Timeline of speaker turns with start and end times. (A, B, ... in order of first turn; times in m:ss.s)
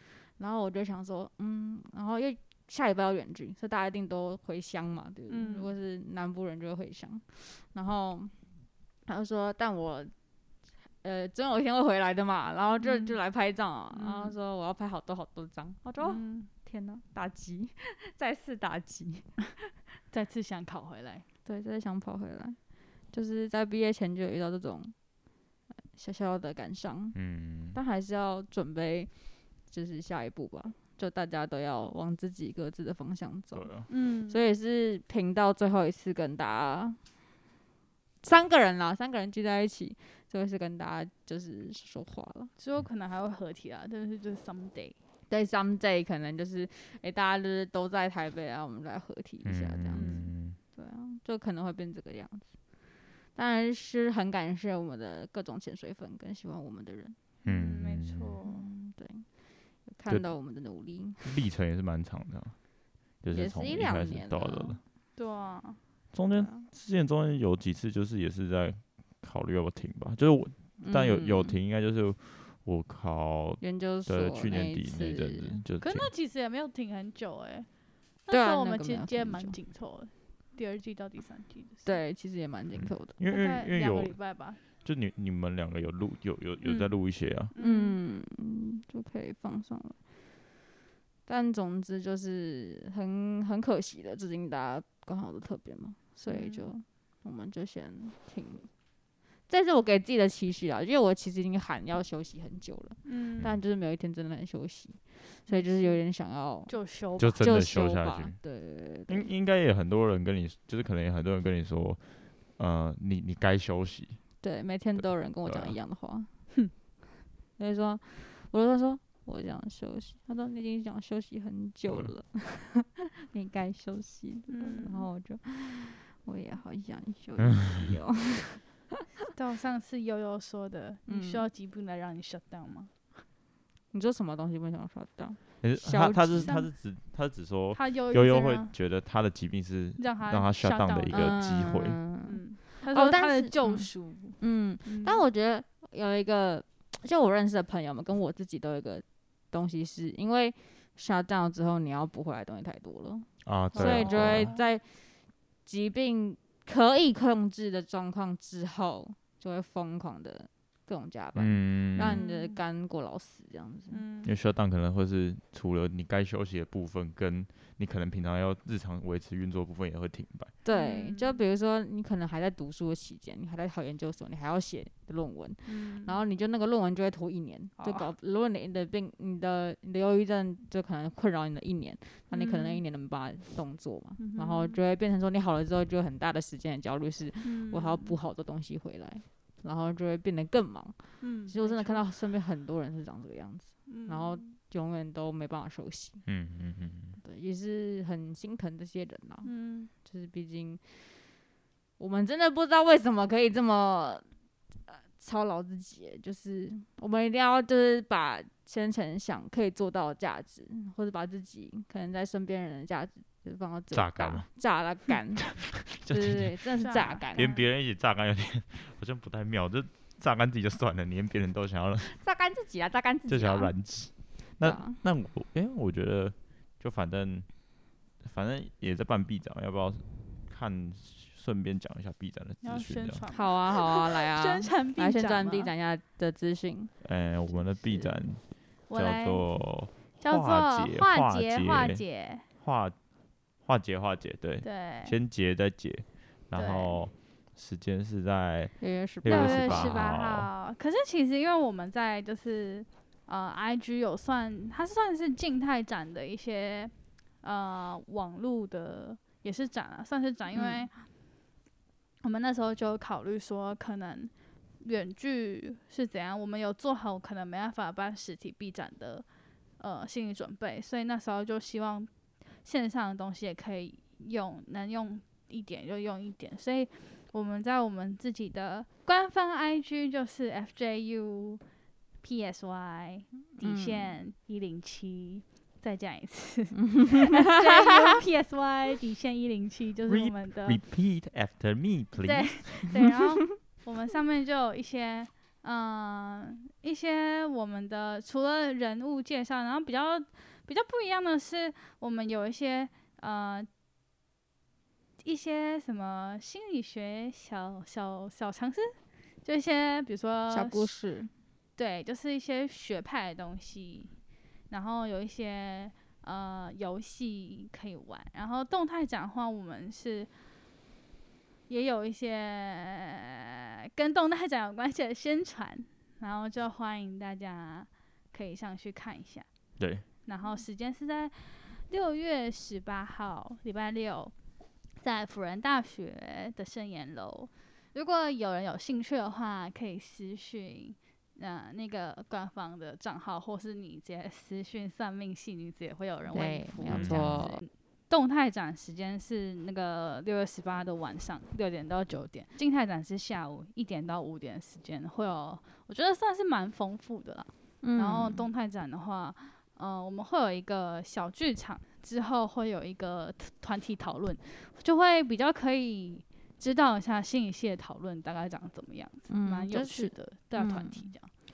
0:00.4-0:08.3 A
0:05.3-0:05.7 B
0:09.1-0:10.1 A
0:11.0-0:19.4 A
0:12.8-0:13.2 B
0:13.9-0:14.4 B
0:16.0-0:16.5 B
0:20.1-0:21.3 B
0:21.4-0:22.6 A
0:23.1-0:24.9 A
0:25.9-0:27.2 A
0:27.1-0:27.8 C
0:27.7-0:29.1 A
0:29.7-0:37.0 A
0:33.5-0:33.9 C
0:33.9-0:34.4 B
0:38.2-0:42.5 A
0:42.6-0:45.0 B
0:45.3-0:52.5 A
0:49.4-0:50.6 C
0:49.9-0:50.3 B
0:53.4-0:57.2 A
0:57.4-0:58.4 C
0:57.4-0:58.7 B
0:58.4-0:59.3 A
0:59.9-1:01.3 A
1:01.2-1:02.6 C
1:03.2-1:04.8 C
1:03.3-1:04.8 A
1:05.2-1:05.8 B
1:06.1-1:16.1 C
1:06.4-1:06.7 A
1:10.8-1:11.6 A
1:13.6-1:15.6 A
1:15.8-1:17.7 B
1:18.3-1:22.0 B
1:18.3-1:19.6 A
1:21.8-1:23.2 A
1:22.8-1:24.2 C
1:23.3-1:24.6 B
1:24.8-1:27.5 C
1:26.6-1:26.9 B
1:27.5-1:28.0 B
1:27.6-1:30.0 A
1:31.3-1:38.7 A
1:36.3-1:36.7 B
1:39.5-1:46.8 A
1:43.0-1:43.5 B
1:45.5-1:46.0 B
1:46.7-1:47.5 B
1:47.2-1:48.4 C
1:47.4-1:49.2 A
1:49.1-1:52.0 C
1:52.6-1:54.2 C
1:54.4-1:56.3 A
1:55.0-1:55.8 C
1:57.6-2:08.6 A
2:04.5-2:05.1 B
2:09.3-2:12.9 B
2:11.1-2:11.5 A
2:13.9-2:16.5 A
2:15.6-2:22.0 C
2:17.7-2:18.7 B
2:20.0-2:21.5 B
2:21.1-2:34.8 A
2:22.3-2:25.2 B
2:33.4-2:34.5 C
2:33.8-2:34.7 B
2:35.7-2:44.0 A
2:41.4-2:42.2 C
2:42.0-2:42.6 B
2:43.9-2:44.3 B
2:44.2-2:50.5 C
2:50.6-3:11.0 A
2:50.7-2:51.4 B
2:55.6-2:56.2 B
2:57.8-2:58.1 B
3:02.3-3:02.8 B
3:04.2-3:04.8 B
3:07.4-3:08.2 B
3:11.2-3:12.0 B
3:11.5-3:16.2 A
3:13.9-3:14.5 B
3:16.3-3:17.2 C
3:17.2-3:19.5 A
3:19.4-3:19.9 B
3:20.0-3:21.0 A
3:22.0-3:24.2 A
3:24.9-3:37.5 A
3:33.9-3:34.5 C
3:35.1-3:36.6 C
3:36.8-3:37.6 B
3:37.4-3:42.1 C
3:42.0-3:43.7 A
3:43.3-3:47.7 C
3:44.6-3:45.0 A
3:48.2-3:53.2 C
3:52.6-3:55.7 B
3:53.3-3:56.9 A
3:57.0-3:58.4 C
3:58.9-3:59.5 B
3:58.9-4:02.0 C
4:00.2-4:02.4 B
4:02.6-4:03.0 C
4:03.6-4:10.5 C
4:04.6-4:05.2 B
4:06.6-4:07.0 B
4:08.8-4:10.0 A
4:09.3-4:21.0 B
4:20.5-4:20.9 A
4:22.2-4:29.2 B
4:29.8-4:32.1 B
4:32.6-4:41.6 B
4:42.2-4:50.8 B
4:43.6-4:44.2 A
4:46.8-4:48.0 A
4:50.1-4:53.0 C
4:52.2-5:03.7 B
5:05.2-5:10.9 B
5:10.5-5:11.3 A
5:11.8-5:14.1 B
5:14.7-5:20.3 B
5:21.7-5:29.5 B
5:29.8-5:30.0 C
5:30.2-5:34.3 B
5:35.0-6:11.3 B
5:46.3-5:47.6 A
5:46.9-5:47.4 C
5:57.8-5:58.5 A
6:09.3-6:11.1 A